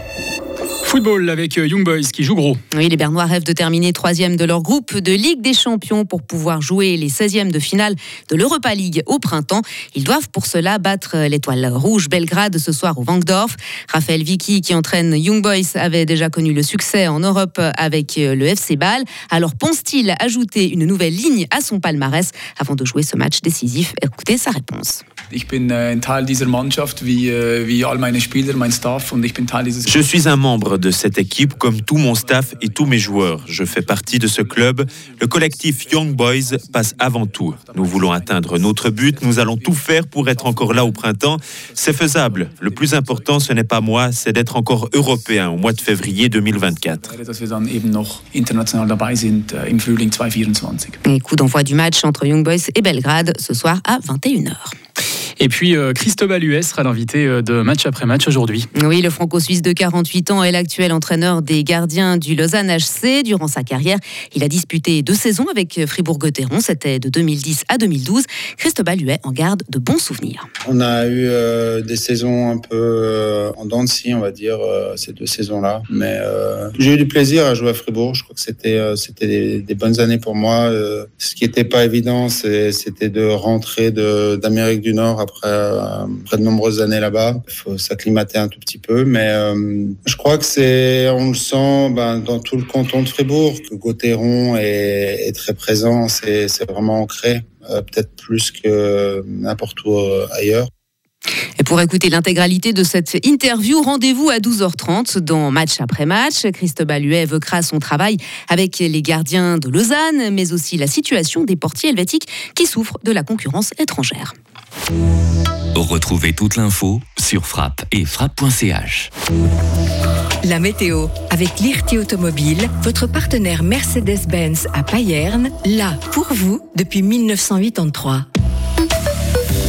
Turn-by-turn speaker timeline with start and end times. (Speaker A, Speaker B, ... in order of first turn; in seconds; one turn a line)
Speaker A: 0.8-2.6
Speaker B: 2.7-25.0
Speaker C: 25.3-43.9
Speaker D: 29.8-47.1
Speaker C: 44.8-51.0
Speaker B: 51.0-54.7
Speaker A: 55.4-58.7
Speaker B: 58.8-70.5
Speaker E: 70.7-100.7
Speaker B: 101.6-114.3
Speaker F: 115.7-119.1
Speaker G: 120.7-128.2